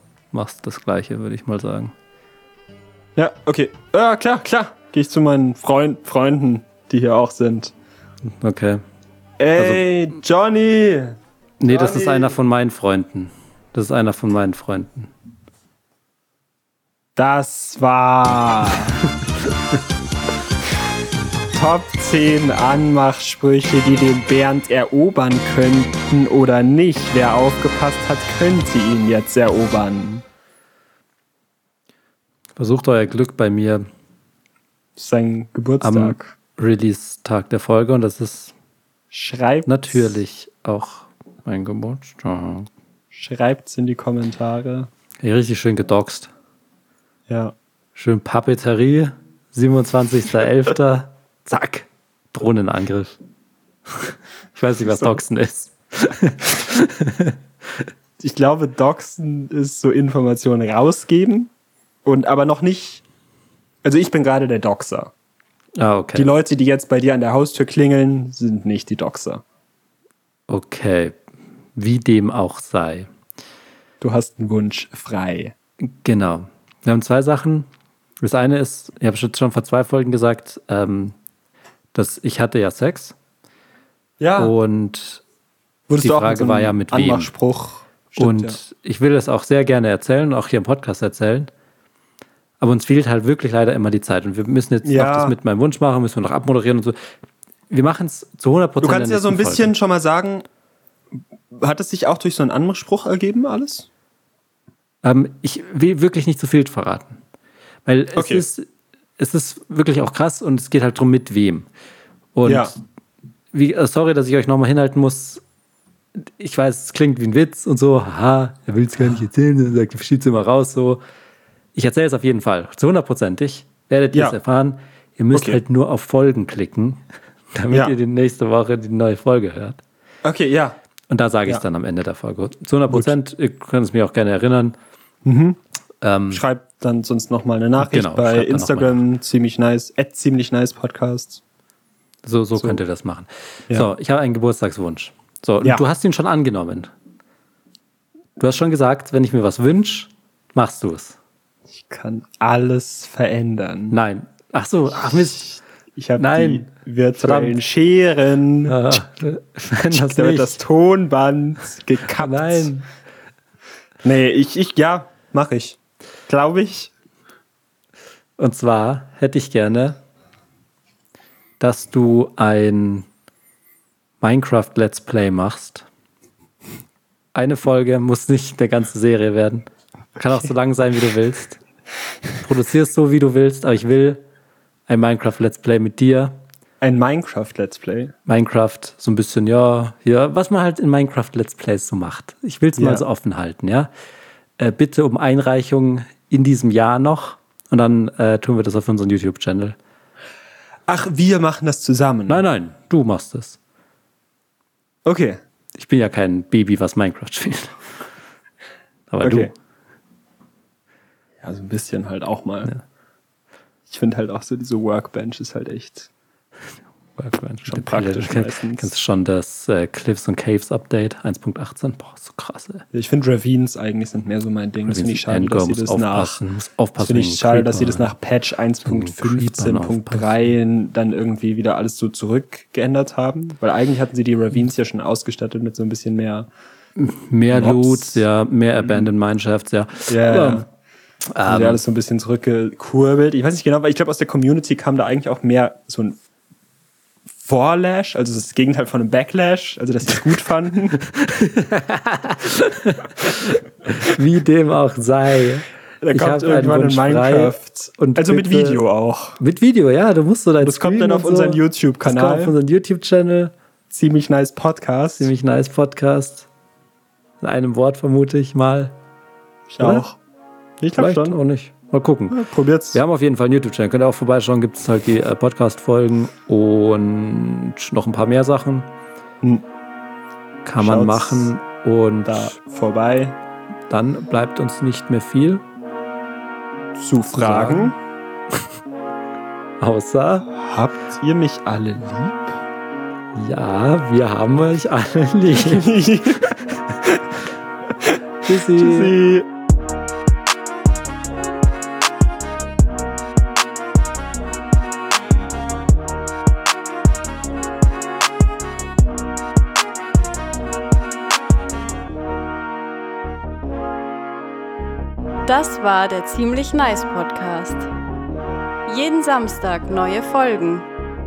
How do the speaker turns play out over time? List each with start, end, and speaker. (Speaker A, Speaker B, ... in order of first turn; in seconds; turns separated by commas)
Speaker A: 0.3-1.9, Speaker B: 3.2-7.7, Speaker A: 8.2-8.8, Speaker B: 9.4-12.3, Speaker A: 9.6-9.9, Speaker A: 11.6-15.1, Speaker B: 17.2-19.0, Speaker B: 21.5-30.2, Speaker A: 32.6-33.9, Speaker B: 35.0-36.3, Speaker A: 35.8-38.5, Speaker B: 39.1-40.2, Speaker A: 39.7-42.7, Speaker B: 43.1-44.9, Speaker A: 45.2-46.3, Speaker B: 47.3-47.5, Speaker A: 48.0-53.2, Speaker A: 54.5-57.9, Speaker B: 58.2-61.5, Speaker B: 62.0-63.0, Speaker B: 63.8-65.1, Speaker A: 65.8-66.3, Speaker B: 66.2-69.4, Speaker A: 70.5-71.2, Speaker A: 71.8-73.1, Speaker B: 74.0-75.5, Speaker A: 75.8-77.7, Speaker A: 78.2-81.2, Speaker A: 81.9-83.2, Speaker B: 84.2-84.5, Speaker A: 84.4-85.2, Speaker B: 85.9-88.6, Speaker A: 86.0-87.3, Speaker A: 88.2-91.5, Speaker A: 92.6-97.0, Speaker B: 94.8-95.4, Speaker A: 97.7-99.7, Speaker B: 98.8-100.5, Speaker B: 101.5-103.9, Speaker A: 105.0-107.2, Speaker A: 107.8-108.7, Speaker B: 108.2-108.5, Speaker A: 109.2-111.7, Speaker A: 112.3-112.8, Speaker B: 112.4-112.7, Speaker A: 113.5-115.4, Speaker A: 116.2-121.0, Speaker A: 121.8-129.8, Speaker B: 124.1-124.4, Speaker B: 125.3-125.6, Speaker B: 130.2-130.8, Speaker A: 131.1-134.8, Speaker B: 132.9-133.2, Speaker B: 135.2-135.6, Speaker A: 136.0-136.4, Speaker B: 136.3-141.4, Speaker A: 137.8-139.0, Speaker A: 142.2-146.9, Speaker B: 142.6-142.8, Speaker A: 148.4-151.2, Speaker B: 151.8-154.0, Speaker A: 153.9-155.6, Speaker B: 155.3-159.0, Speaker A: 156.2-157.6, Speaker A: 158.7-160.6, Speaker B: 159.9-162.7, Speaker A: 162.1-162.9, Speaker B: 164.0-166.9, Speaker A: 168.4-170.0, Speaker A: 171.6-173.1, Speaker A: 174.2-175.9, Speaker A: 177.3-181.6, Speaker A: 182.4-184.2, Speaker A: 184.9-186.4, Speaker B: 186.8-188.1, Speaker A: 188.3-193.9, Speaker B: 192.8-193.1, Speaker A: 194.6-199.8, Speaker B: 200.9-202.4, Speaker A: 202.3-203.6, Speaker B: 205.1-205.4, Speaker A: 205.8-207.8, Speaker A: 209.1-209.5, Speaker B: 209.2-209.5, Speaker B: 211.4-212.7, Speaker B: 213.9-216.1, Speaker A: 217.2-222.8, Speaker B: 217.7-218.9, Speaker B: 222.9-226.4, Speaker A: 224.9-228.1, Speaker B: 227.0-236.5, Speaker A: 228.8-230.5, Speaker A: 237.0-240.7, Speaker B: 237.5-238.2, Speaker B: 238.8-239.1, Speaker B: 240.1-240.7, Speaker A: 241.3-241.8, Speaker B: 241.4-246.2, Speaker B: 247.4-251.0, Speaker A: 251.0-258.8, Speaker B: 256.0-259.4, Speaker A: 259.4-263.5, Speaker B: 260.6-262.6, Speaker B: 263.9-265.3, Speaker A: 265.2-266.5, Speaker A: 267.4-268.9, Speaker B: 269.7-270.2, Speaker A: 269.8-270.1, Speaker B: 270.8-271.4, Speaker A: 271.0-272.4, Speaker B: 272.3-273.0, Speaker A: 272.9-278.9, Speaker A: 280.6-282.5, Speaker B: 280.8-281.5, Speaker B: 282.2-283.4, Speaker A: 283.9-285.6, Speaker B: 287.0-288.0, Speaker A: 287.3-287.9, Speaker A: 289.8-290.5, Speaker B: 290.5-292.6, Speaker A: 293.3-295.9, Speaker B: 295.6-297.2, Speaker A: 298.4-299.2, Speaker B: 298.7-299.5, Speaker C: 315.4-317.9, Speaker C: 318.9-320.9